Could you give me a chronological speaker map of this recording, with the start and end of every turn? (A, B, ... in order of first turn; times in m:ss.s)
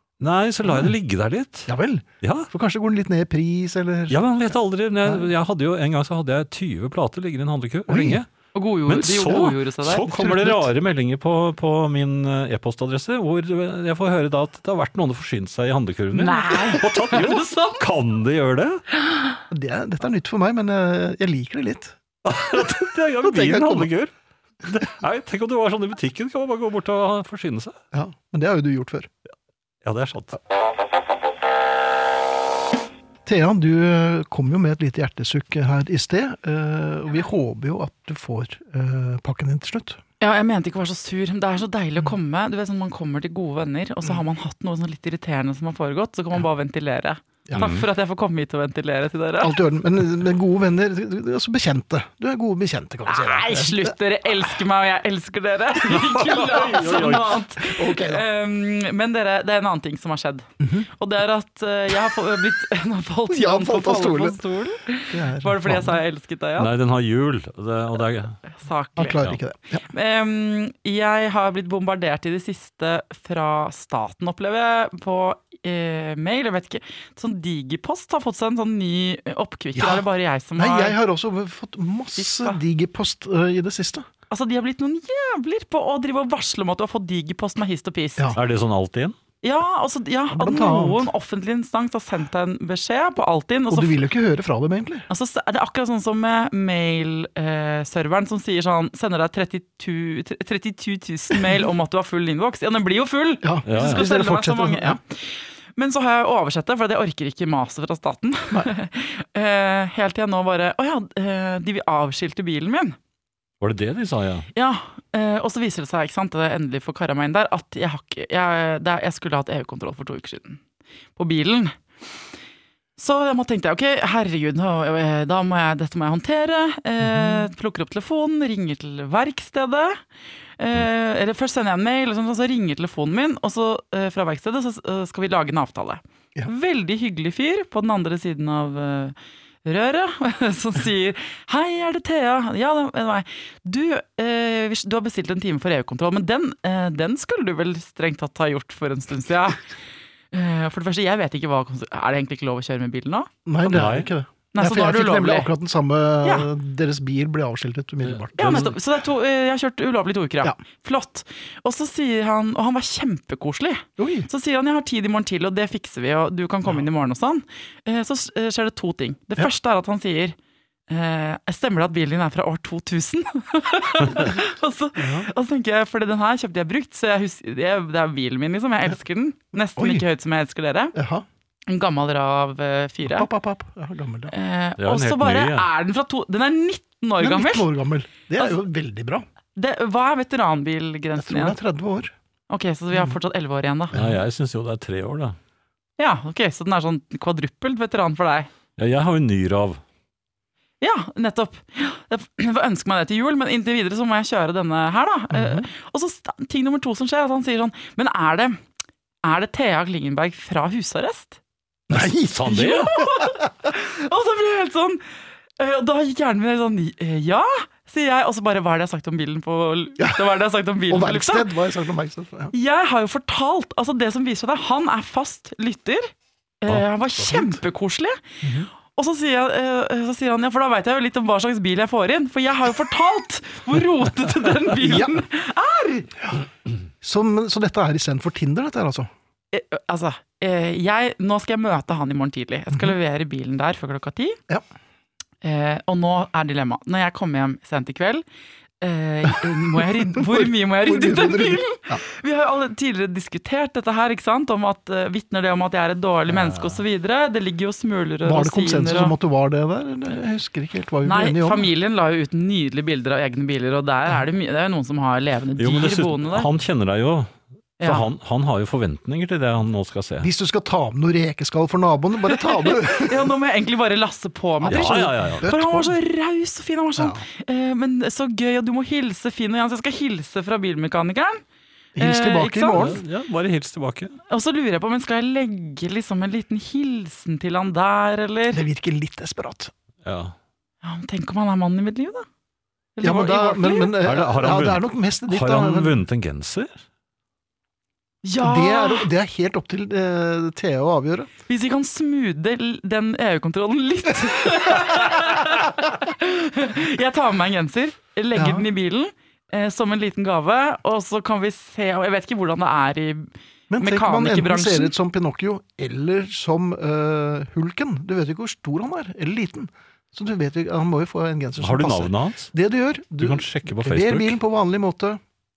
0:00.2-0:01.7 A
0:00.6-0:00.9 B
0:01.7-0:04.2 B
0:02.2-0:02.5 A
0:04.1-0:08.3 A
0:07.9-0:08.2 B
0:08.6-0:10.1 C
0:08.9-0:18.8 A
0:10.1-0:10.7 B
0:16.1-0:17.8 C
0:19.5-0:23.9 B
0:22.2-0:24.1 A
0:24.6-0:27.8 A
0:27.9-0:29.1 B
0:29.8-0:30.4 A
0:33.3-0:40.0 B
0:40.2-0:49.6 C
0:47.6-0:47.9 A
0:49.4-0:53.9 B
0:53.1-1:06.7 C
0:55.9-0:57.4 A
0:56.5-0:58.2 B
1:00.6-1:00.9 B
1:03.3-1:04.4 B
1:05.1-1:06.0 B
1:06.6-1:08.4 A
1:08.5-1:09.2 C
1:09.0-1:09.9 B
1:09.9-1:21.0 C
1:19.8-1:20.0 B
1:20.6-1:24.1 B
1:22.2-1:22.6 C
1:24.3-1:28.4 C
1:28.4-1:29.2 A
1:29.4-1:34.0 C
1:30.3-1:31.1 B
1:33.7-1:35.1 B
1:35.1-1:53.0 C
1:43.4-1:45.0 B
1:43.7-1:44.1 A
1:53.6-1:54.5 A
1:54.6-2:00.6 C
2:01.2-2:01.8 C
2:03.0-2:10.0 C
2:07.0-2:07.5 B
2:10.6-2:29.7 C
2:30.3-2:33.3 C
2:33.5-2:38.8 B
2:33.7-2:34.1 A
2:34.5-2:35.5 C
2:38.0-2:38.7 A
2:38.4-2:50.4 C
2:44.0-2:44.3 B
2:50.9-3:01.0 C
2:55.0-2:55.3 B
2:59.8-3:00.0 B
3:01.0-3:01.2 B
3:01.7-3:03.3 C
3:03.1-3:04.3 B
3:04.3-3:07.7 C
3:04.8-3:05.7 A
3:07.2-3:09.3 B
3:09.6-3:11.6 C
3:11.2-3:12.1 B
3:12.5-3:14.0 C
3:13.9-3:15.4 A
3:16.0-3:18.5 C
3:18.8-3:19.8 A
3:20.8-3:28.6 C
3:25.3-3:25.7 B
3:29.2-3:31.4 C
3:31.9-3:33.5 B
3:31.9-3:32.9 A
3:32.5-3:35.0 C
3:35.6-3:41.5 C
3:40.9-3:42.5 B
3:42.5-3:48.2 C
3:47.2-3:47.6 B
3:48.4-3:48.7 B
3:48.9-3:56.2 C
3:54.8-3:55.2 B
3:57.0-3:59.1 B
3:59.5-4:04.4 C
4:05.4-4:08.2 C
4:08.8-4:19.1 C
4:09.3-4:12.0 B
4:16.5-4:16.7 B
4:18.2-4:21.7 B
4:21.0-4:26.5 C
4:25.6-4:30.3 A
4:27.8-4:28.1 C
4:30.2-4:33.3 B
4:32.3-4:41.4 C
4:34.6-4:36.0 B
4:34.7-4:35.5 A
4:37.0-4:37.2 B
4:42.0-4:43.0 B
4:42.0-4:43.0 C
4:42.7-4:44.2 A
4:44.3-4:48.6 C
4:48.5-4:49.7 B
4:50.0-4:50.4 A
4:50.8-4:52.3 C
4:53.0-4:54.0 C
4:53.0-4:56.0 B
4:54.0-4:56.7 A
4:58.2-4:59.1 C
4:58.4-5:01.3 B
5:01.5-5:14.9 C
5:08.4-5:08.7 B
5:13.7-5:25.2 B
5:21.6-5:22.5 A
5:23.2-5:24.4 A